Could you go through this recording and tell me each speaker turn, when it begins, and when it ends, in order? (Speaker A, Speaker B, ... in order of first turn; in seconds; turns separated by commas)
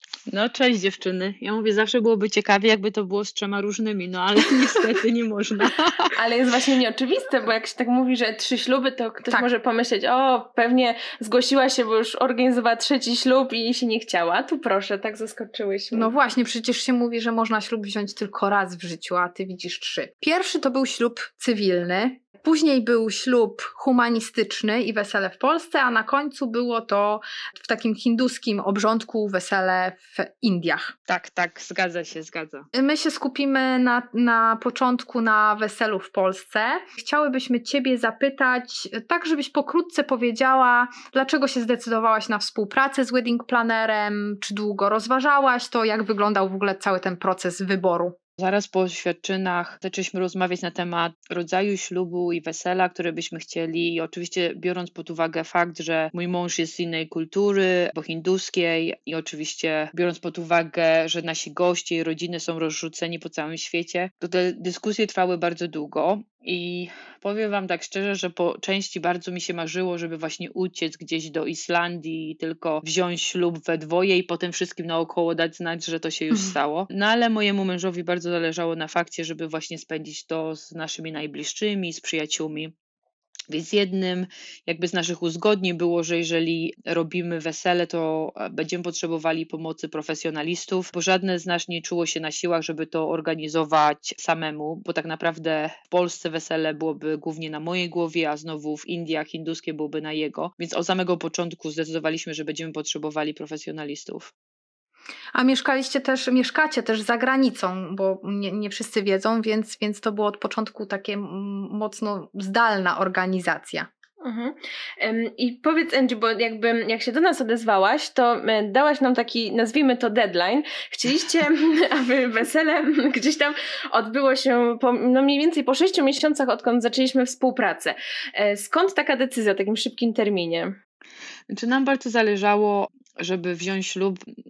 Speaker A: 0.3-6.1, Speaker B: 6.1-16.1, Speaker C: 15.9-30.9, Speaker A: 31.1-32.7, Speaker C: 32.7-48.2, Speaker A: 48.4-82.7, Speaker A: 83.5-104.3, Speaker C: 105.3-113.9, Speaker B: 114.2-130.8, Speaker A: 131.5-134.2